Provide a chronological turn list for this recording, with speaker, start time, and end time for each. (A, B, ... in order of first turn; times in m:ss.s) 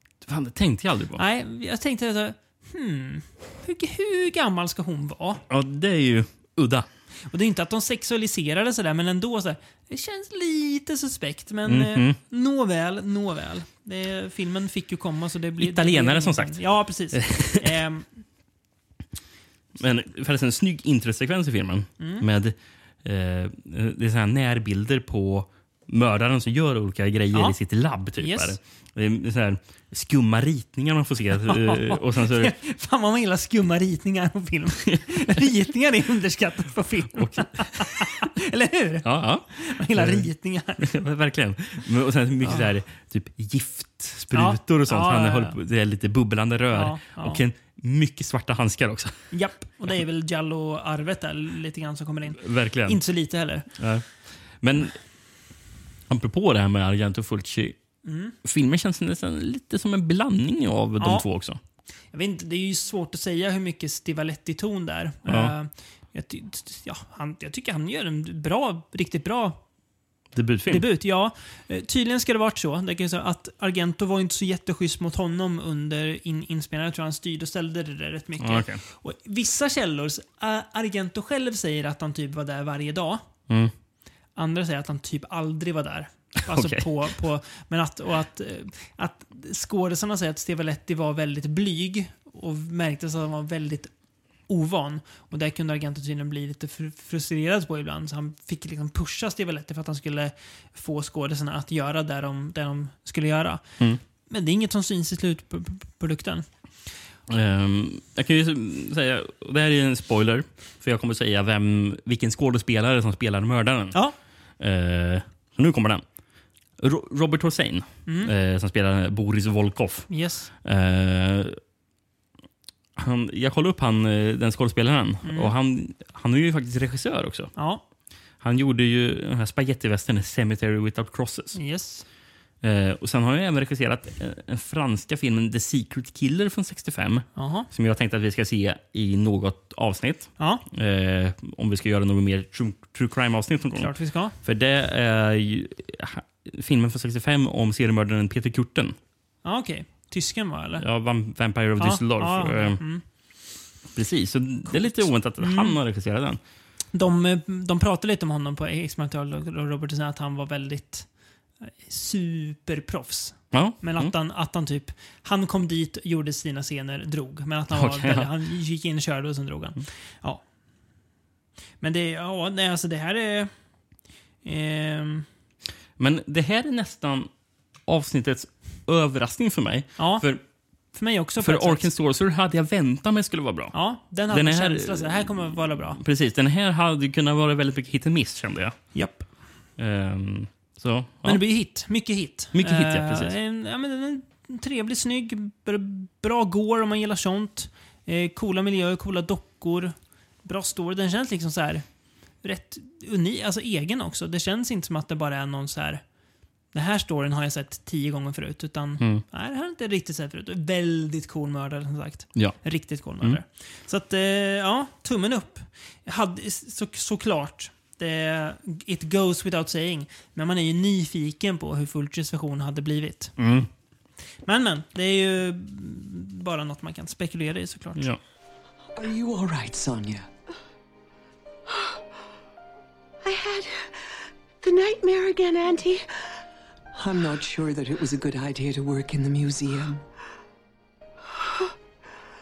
0:00.2-0:01.2 A
0:01.2-0:05.4 B
0:05.5-0:06.9 A
0:07.3-0:18.1 B
0:11.7-0:12.2 A
0:15.6-0:17.8 A
0:19.8-0:32.5 A
0:22.0-0:22.3 B
0:27.3-0:27.6 B
0:28.2-0:28.6 B
0:31.4-0:40.9 B
0:37.1-0:38.2 A
0:39.0-0:49.2 A
0:42.4-0:42.7 B
0:44.3-0:45.6 B
0:46.7-0:47.4 B
0:49.3-0:53.7 B
0:52.4-0:53.0 A
0:53.8-0:55.0 A
0:56.1-0:57.8 A
0:58.0-0:58.4 B
0:58.4-1:01.6 A
1:01.0-1:01.3 B
1:02.1-1:09.6 B
1:05.3-1:05.5 A
1:10.4-1:10.9 A
1:10.7-1:23.3 B
1:18.4-1:18.8 A
1:24.4-1:33.9 B
1:26.5-1:26.9 A
1:34.5-1:43.6 B
1:44.3-1:46.5 B
1:47.3-1:54.0 A
1:54.6-1:56.0 A
1:56.8-2:00.1 A
1:58.1-1:58.3 B
2:00.1-2:00.5 B
2:00.6-2:01.6 A
2:03.0-2:07.5 A
2:05.2-2:05.5 B
2:07.6-2:07.8 B
2:08.4-2:11.6 A
2:11.5-2:12.0 B
2:12.6-2:29.0 A
2:17.4-2:17.7 B
2:20.4-2:20.6 B
2:23.8-2:24.4 B
2:29.4-2:30.8 B
2:30.8-2:32.8 A
2:31.8-2:33.0 B
2:34.0-2:36.4 A
2:34.7-2:35.8 B
2:36.9-2:41.1 B
2:41.6-2:50.4 B
2:43.5-2:44.1 A
2:47.7-2:48.3 A
2:51.8-2:53.5 B
2:54.4-2:55.3 B
2:56.0-2:57.3 A
2:57.9-3:00.4 A
3:00.0-3:00.2 B
3:00.9-3:01.9 B
3:01.4-3:03.8 A
3:03.7-3:06.0 B
3:04.3-3:08.8 A
3:08.9-3:09.3 B
3:09.8-3:11.4 A
3:11.2-3:21.8 B
3:12.5-3:13.3 A
3:22.4-3:26.0 B
3:26.7-3:43.4 B
3:43.4-3:43.7 A
3:44.5-3:48.1 B
3:49.0-3:50.3 C
3:53.2-3:56.1 D
3:56.9-4:00.0 C
4:01.4-4:01.7 D